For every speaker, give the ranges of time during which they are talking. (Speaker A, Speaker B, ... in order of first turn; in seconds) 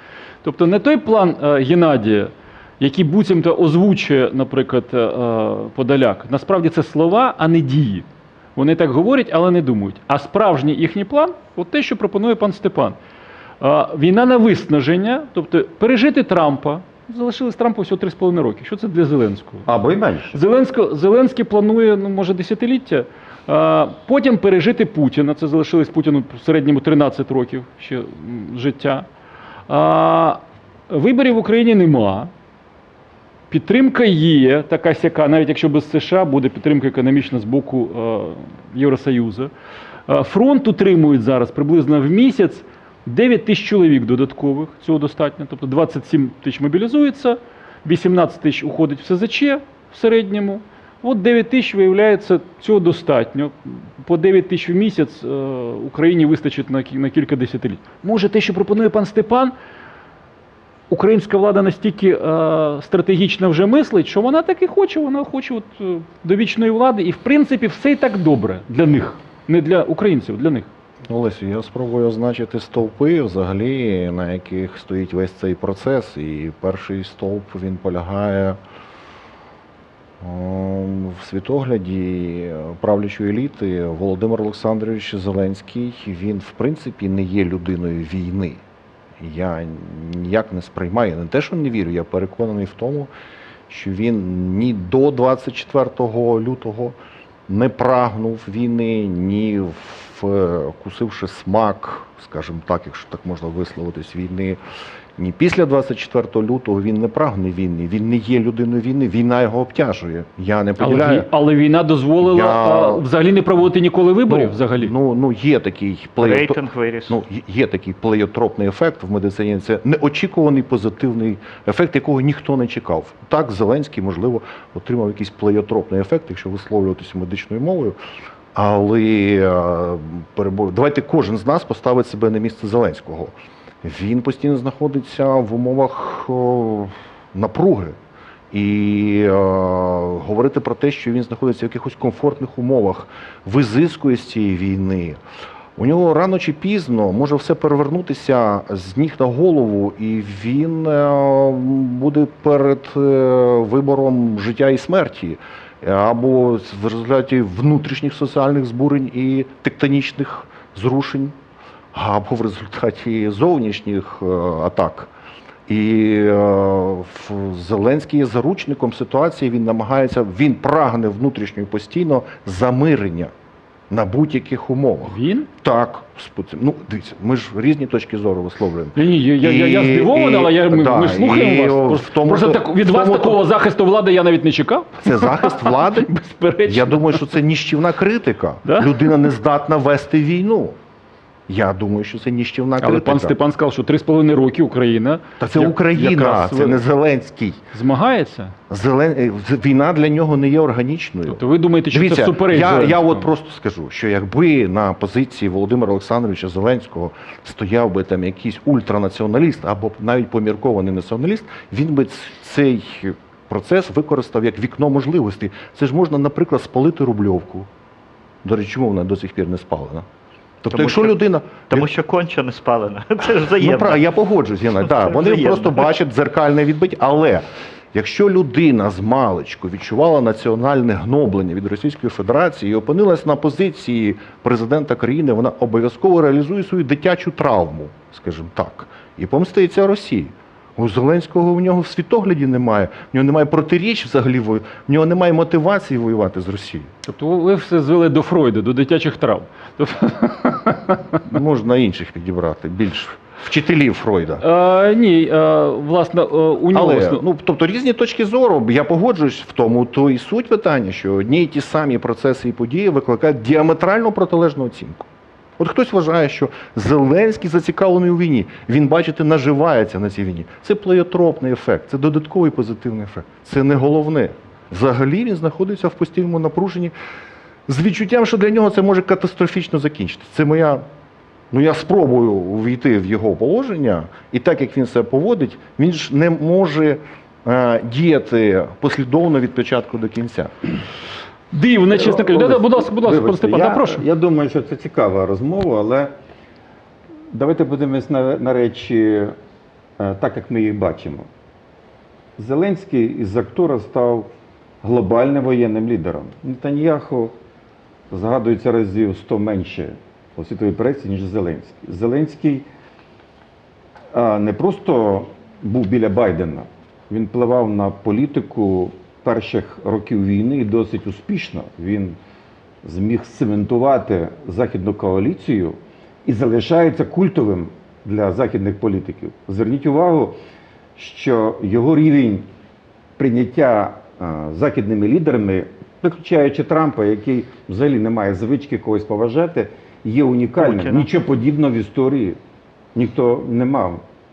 Speaker A: 0.4-13.0, 13.6-19.7, 20.3-29.1, 29.7-32.3, 33.5-39.5, 40.1-59.5, 60.9-70.7, 110.8-114.9, 175.0-175.5, 179.0-187.3, 188.7-189.3, 192.8-196.8, 197.7-198.5, 201.3-203.3, 247.1-251.2, 254.4-257.2, 291.5-294.0
Speaker B: 19.7-20.4, 291.9-296.1, 297.3-299.3, 300.0-301.3, 302.4-304.3, 304.8-307.3, 308.1-312.7, 314.1-322.2, 322.8-330.4, 331.0-332.4, 333.2-342.4, 342.9-344.0
Speaker C: 71.1-78.6, 80.2-88.6, 89.2-93.1, 93.7-97.0, 97.5-104.6, 105.2-111.3, 112.2-113.1, 114.3-128.0, 128.5-138.0, 138.5-145.2, 145.8-161.3, 161.9-165.1, 165.7-173.3, 173.9-183.4, 185.0-186.1, 186.6-190.8, 191.5-193.4, 195.4-197.6, 198.7-217.7, 218.4-220.1, 220.6-221.9, 223.6-246.9, 251.3-254.4, 256.7-265.1, 265.6-276.9, 277.7-280.8, 281.5-290.5
Speaker D: 116.2-117.2, 220.7-224.0, 224.8-225.9, 340.6-341.1